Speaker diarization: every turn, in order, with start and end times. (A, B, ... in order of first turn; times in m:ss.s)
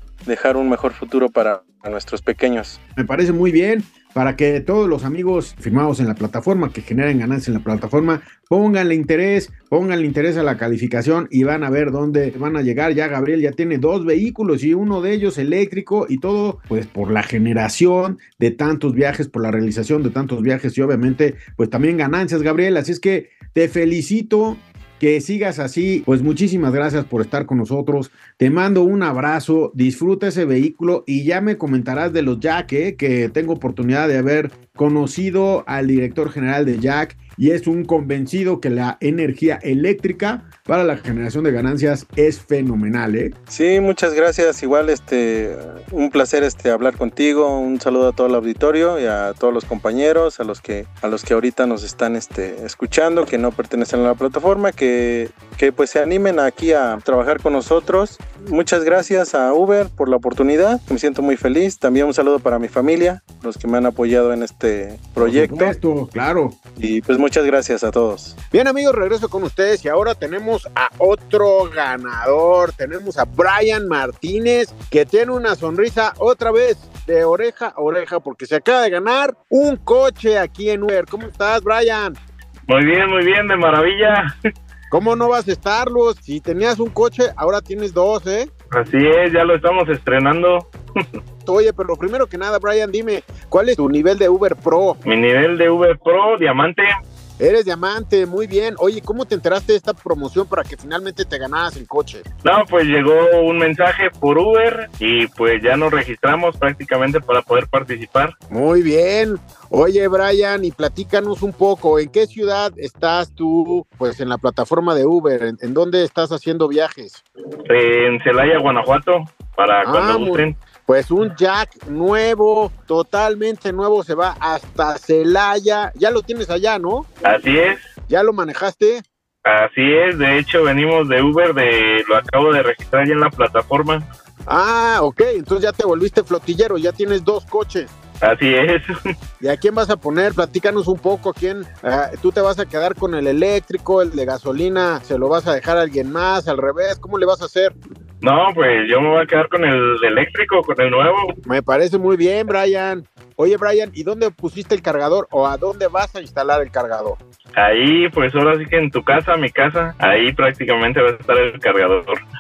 0:00.2-0:02.8 A
0:03.0-0:43.4 B
0:43.5-1:05.8 A
1:05.2-1:06.6 B
1:06.8-1:08.4 A
1:08.5-1:22.2 B
1:22.7-1:24.3 C
1:24.9-1:28.5 B
1:28.7-1:31.1 C
1:31.5-1:35.0 B
1:35.0-1:36.9 C
1:37.4-1:42.2 B
1:42.4-1:48.4 C
1:48.5-1:57.2 B
1:57.7-2:00.6 C
1:59.8-2:07.1 B
2:07.2-2:07.8 C
2:08.1-2:09.0 B
2:09.4-2:14.0 C
2:14.5-2:17.9 B
2:18.2-2:18.9 C
2:19.4-2:27.7 B
2:28.2-2:31.4 C
2:31.5-2:37.2 B
2:37.6-2:42.2 C